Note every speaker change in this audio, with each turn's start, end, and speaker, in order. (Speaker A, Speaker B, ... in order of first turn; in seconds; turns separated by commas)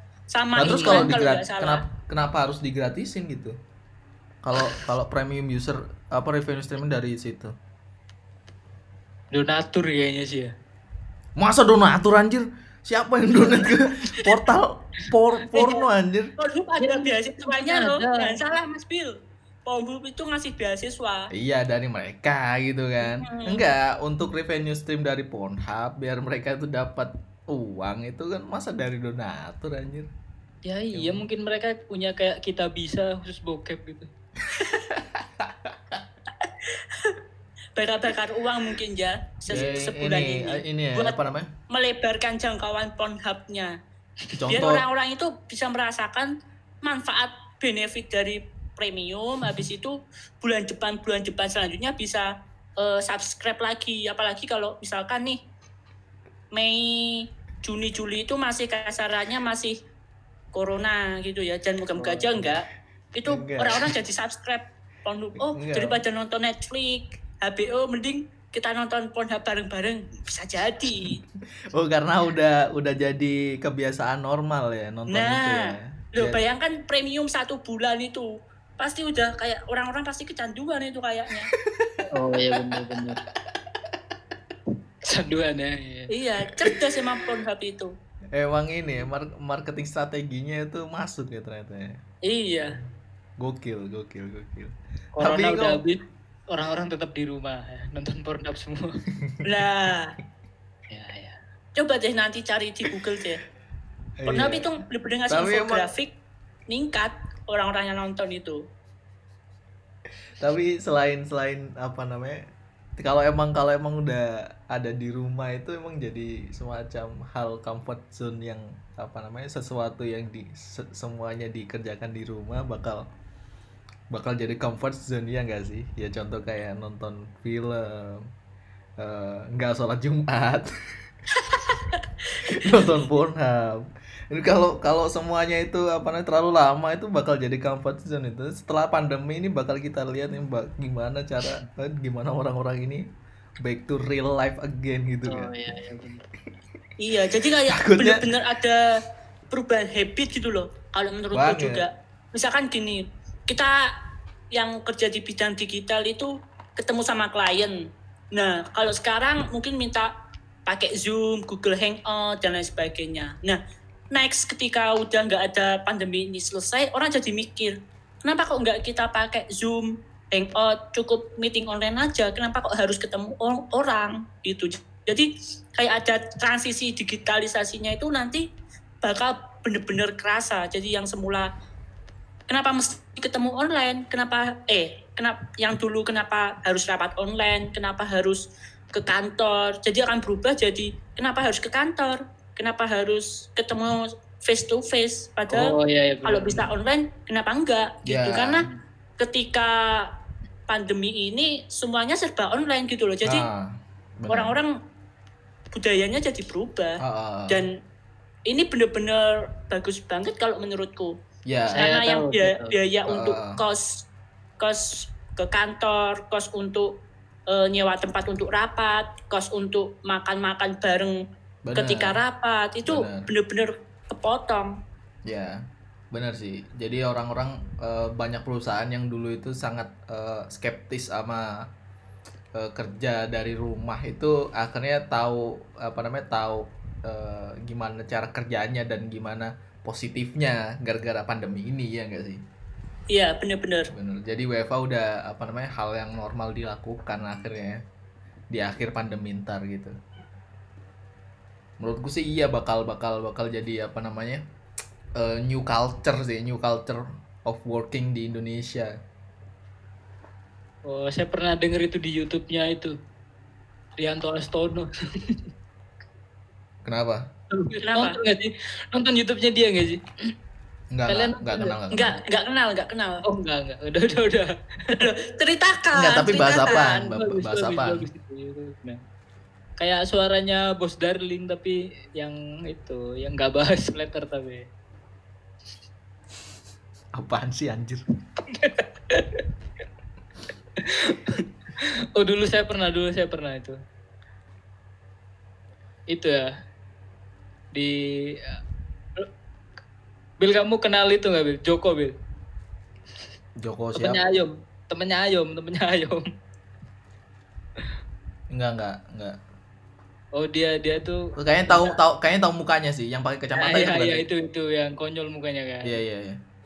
Speaker A: 0.3-1.8, Speaker B: 0.6-3.6, Speaker C: 0.6-1.1, Speaker B: 4.4-7.5, Speaker C: 9.3-10.5, Speaker B: 11.4-16.3, Speaker A: 15.5-15.9, Speaker A: 16.4-19.1, Speaker C: 16.8-18.4, Speaker A: 19.7-21.3, Speaker B: 21.3-30.1, Speaker A: 23.1-23.6, Speaker C: 30.6-34.1, Speaker B: 30.9-31.3, Speaker B: 34.5-36.0, Speaker A: 36.4-37.2, Speaker A: 37.8-43.8, Speaker B: 39.5-41.5, Speaker B: 44.4-44.8, Speaker A: 44.5-46.3, Speaker A: 46.8-55.4, Speaker A: 56.5-59.8, Speaker A: 60.5-71.2, Speaker B: 62.0-62.6, Speaker B: 63.3-63.9, Speaker B: 65.4-66.0, Speaker B: 71.7-76.4, Speaker A: 75.1-81.5, Speaker B: 81.6-83.0, Speaker C: 82.1-83.2, Speaker C: 85.1-86.1, Speaker A: 86.1-87.9, Speaker B: 86.5-87.4, Speaker B: 88.3-92.0, Speaker A: 92.3-92.8, Speaker B: 93.4-95.8, Speaker C: 95.2-96.0, Speaker C: 96.5-99.0, Speaker B: 99.1-99.6, Speaker A: 99.4-100.2, Speaker C: 100.9-101.4, Speaker A: 101.8-103.4, Speaker B: 104.2-104.7, Speaker A: 104.3-106.1, Speaker B: 105.3-105.9, Speaker A: 106.7-108.6, Speaker B: 110.4-112.4, Speaker B: 113.0-123.0, Speaker B: 124.1-128.3, Speaker B: 129.0-130.7, Speaker A: 131.4-132.6, Speaker B: 132.4-143.1, Speaker B: 143.6-145.5, Speaker C: 145.3-146.2, Speaker A: 147.0-148.8, Speaker B: 147.3-148.3, Speaker A: 149.5-153.8, Speaker B: 151.3-151.9, Speaker A: 154.5-157.8, Speaker A: 158.3-160.1, Speaker A: 160.7-163.6, Speaker A: 164.1-178.4, Speaker A: 179.0-181.5, Speaker A: 182.5-195.7, Speaker C: 195.5-196.7, Speaker A: 196.2-198.7, Speaker B: 198.1-198.7, Speaker A: 199.2-200.1, Speaker A: 200.7-203.5, Speaker B: 203.2-204.6, Speaker A: 204.3-204.7, Speaker A: 205.7-207.7, Speaker B: 207.0-207.7, Speaker A: 208.5-211.1, Speaker B: 211.5-211.8, Speaker C: 211.7-212.8, Speaker A: 211.7-214.0, Speaker B: 213.1-213.6, Speaker A: 214.6-216.9, Speaker A: 217.5-221.2, Speaker B: 221.7-222.2, Speaker A: 221.8-224.7, Speaker B: 222.9-223.3, Speaker B: 225.3-231.5, Speaker B: 232.6-242.4, Speaker A: 243.1-243.9, Speaker B: 243.9-247.8, Speaker B: 248.5-249.9, Speaker B: 251.8-254.4, Speaker B: 255.2-259.0, Speaker C: 260.9-262.9, Speaker C: 264.0-265.4, Speaker B: 266.9-267.3, Speaker C: 267.5-270.3, Speaker A: 267.9-268.2, Speaker B: 270.9-272.2, Speaker C: 271.1-271.8, Speaker A: 271.9-273.2, Speaker C: 273.2-275.1, Speaker A: 274.9-277.1, Speaker B: 275.9-278.1, Speaker C: 276.6-279.0, Speaker C: 279.8-284.6, Speaker B: 287.2-288.1, Speaker C: 288.5-289.4, Speaker C: 290.8-293.8, Speaker C: 296.1-296.5, Speaker C: 297.8-298.6, Speaker C: 300.4-302.1, Speaker B: 303.6-304.2, Speaker C: 303.9-306.2, Speaker B: 308.5-309.4, Speaker C: 310.4-312.0, Speaker B: 311.4-314.2, Speaker C: 313.6-315.9, Speaker B: 315.9-316.4